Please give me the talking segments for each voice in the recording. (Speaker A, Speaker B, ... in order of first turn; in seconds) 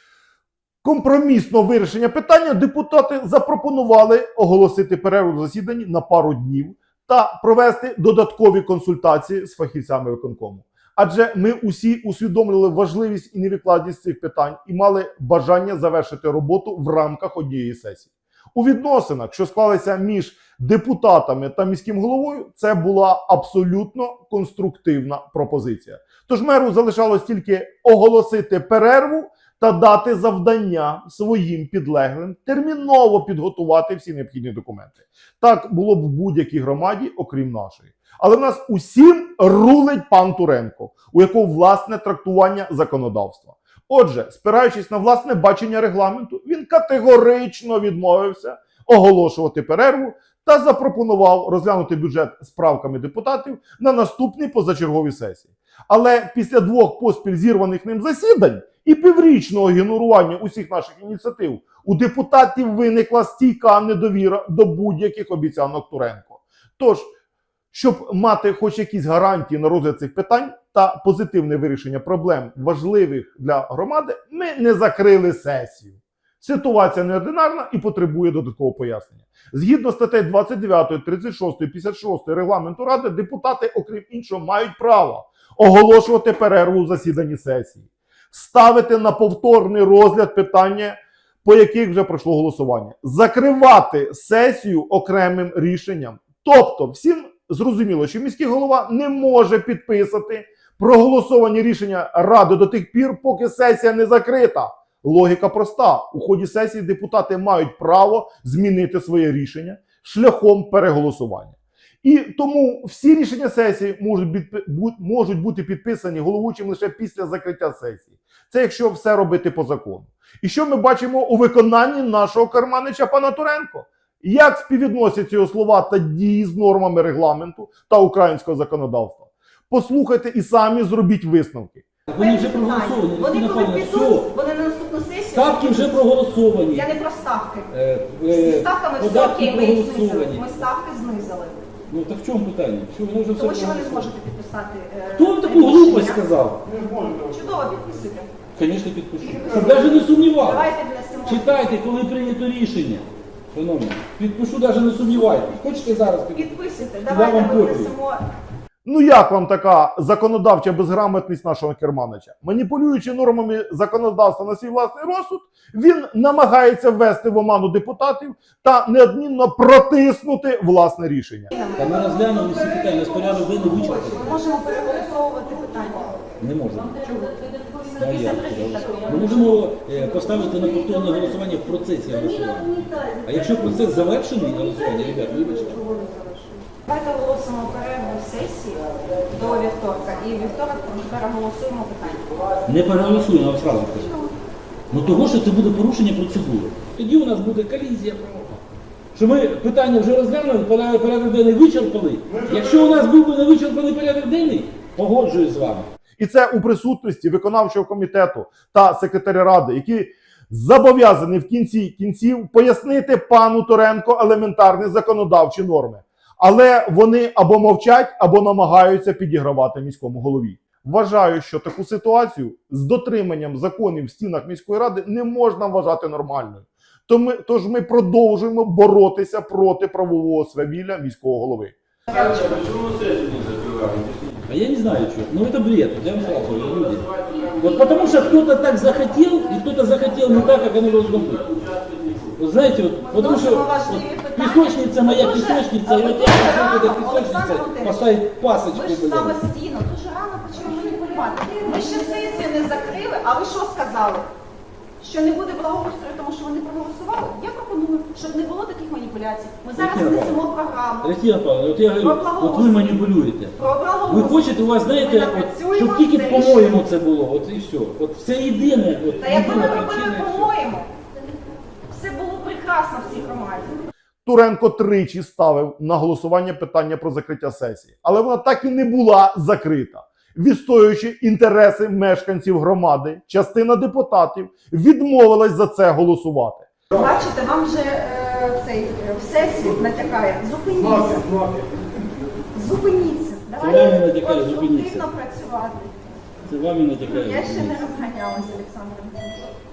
Speaker A: 0.8-67.1, 67.7-131.8, 146.7-147.2, 158.8-171.6, 206.2-231.8, 274.2-286.7
Speaker B: 132.1-134.3, 135.3-136.9, 137.7-140.5, 141.9-144.1, 145.2-146.6, 148.5-150.7, 151.2-157.9, 171.8-174.3, 176.4-177.0, 177.9-185.8, 192.6-194.2, 194.9-198.4, 199.1-205.9, 232.1-249.4, 259.7-260.4, 261.0-263.5, 264.1-270.5, 293.6-295.1, 296.4-297.8
Speaker C: 132.1-136.0, 136.7-137.7, 138.2-141.7, 143.3-146.2, 147.2-148.3, 149.3-151.6, 156.3-158.2, 171.5-172.6, 173.7-176.3, 177.1-179.6, 180.3-181.3, 185.4-192.5, 243.0-248.1, 248.7-254.3, 255.0-261.1, 262.0-266.7, 269.2-270.9, 271.9-273.8, 286.9-291.3, 292.5-295.9, 297.0-299.5